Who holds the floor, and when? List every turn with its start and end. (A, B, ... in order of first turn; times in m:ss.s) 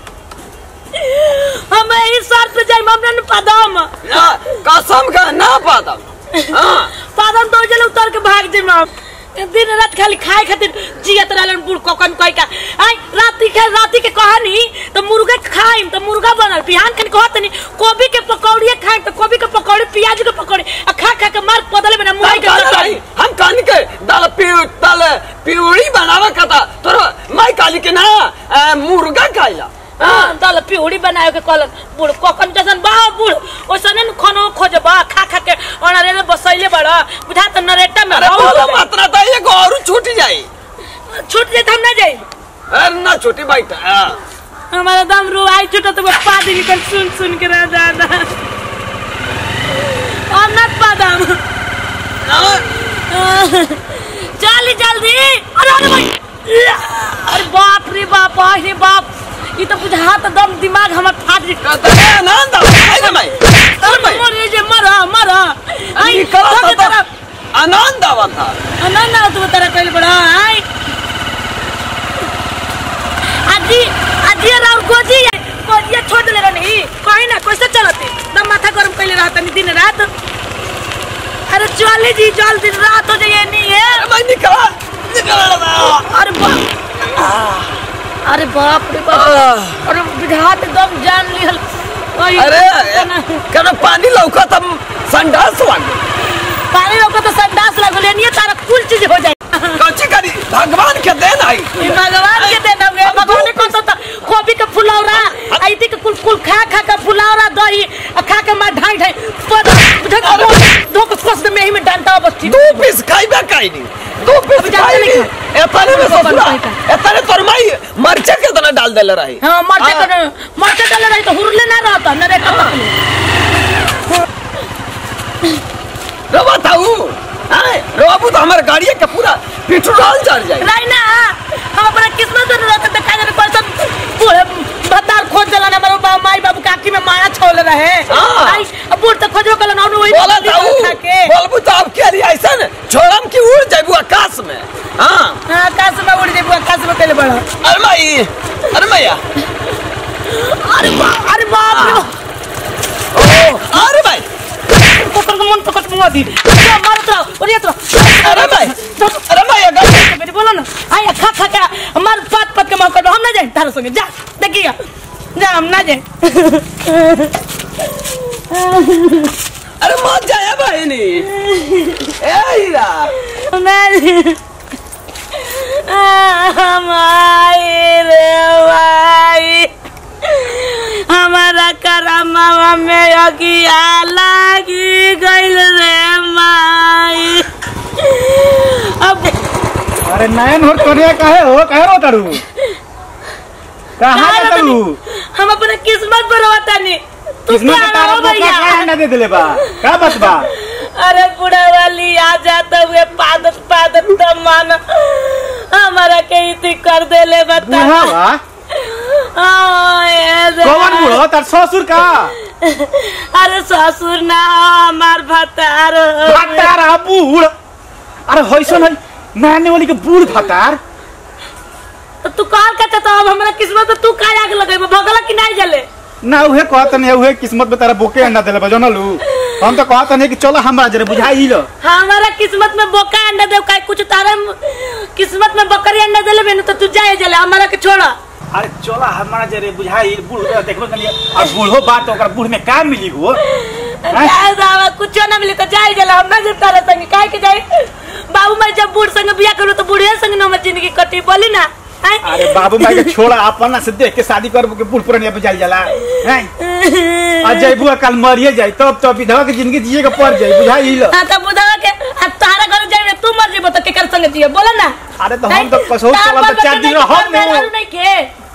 0:00.9-0:03.9 A
0:04.0-0:06.9 B
0:07.0-0:23.0 A
0:22.2-0:30.3 B
0:30.0-0:38.8 A
0:38.1-0:40.5 B
0:41.1-0:42.2 A
0:42.7-0:44.2 B
0:44.7-0:48.3 A
0:49.7-0:51.4 A
0:52.2-0:52.6 B
0:52.9-0:56.5 A
0:57.2-1:01.6 A
1:01.6-1:04.2 B
1:03.8-1:07.1 A
1:06.0-1:07.0 B
1:07.5-1:08.6 B
1:08.8-1:10.6 A
1:13.4-1:20.1 A
1:21.5-1:24.0 A
1:23.9-1:26.0 B
1:25.8-1:26.6 A
1:27.1-1:27.8 B
1:28.2-1:29.3 A
1:29.1-1:29.8 B
1:29.8-1:31.6 A
1:32.1-1:33.4 A
1:32.4-1:36.1 B
1:36.6-1:39.8 A
1:39.7-1:43.7 B
1:41.8-1:52.9 A
1:45.1-1:45.6 B
1:50.2-1:50.6 B
1:52.4-2:00.1 B
1:54.6-1:56.8 A
1:59.4-2:02.9 A
2:02.4-2:02.8 B
2:06.3-2:10.7 B
2:10.6-2:21.3 A
2:18.1-2:18.6 B
2:20.1-2:25.4 B
2:25.5-2:27.4 A
2:27.6-2:29.2 B
2:30.3-2:32.1 A
2:31.7-2:32.1 B
2:33.1-2:34.2 B
2:34.7-2:44.7 A
2:38.0-2:38.8 B
2:39.3-2:40.0 B
2:45.3-2:47.3 A
2:48.2-2:49.3 A
2:49.8-2:51.3 B
2:51.4-2:52.1 A
2:52.2-2:53.1 B
2:53.3-2:54.4 A
2:55.4-2:59.7 A
3:00.3-3:07.5 A
3:08.0-3:09.4 A
3:10.0-3:12.4 C
3:14.0-3:15.0 C
3:14.1-3:14.8 A
3:15.3-3:18.9 A
3:17.5-3:20.5 C
3:20.1-3:28.1 A
3:27.6-3:28.4 C
3:28.7-3:31.2 A
3:30.6-3:32.3 C
3:32.6-3:36.7 A
3:36.2-3:37.5 C
3:38.3-3:40.8 C
3:42.2-3:45.8 A
3:46.2-3:51.7 C
3:51.8-3:58.1 A
3:58.5-4:03.4 C
4:03.5-4:13.1 A
4:04.1-4:04.4 C
4:12.2-4:16.5 C
4:16.1-4:17.7 A
4:17.4-4:21.1 C
4:21.1-4:24.9 A
4:25.2-4:27.7 C
4:25.5-4:28.3 A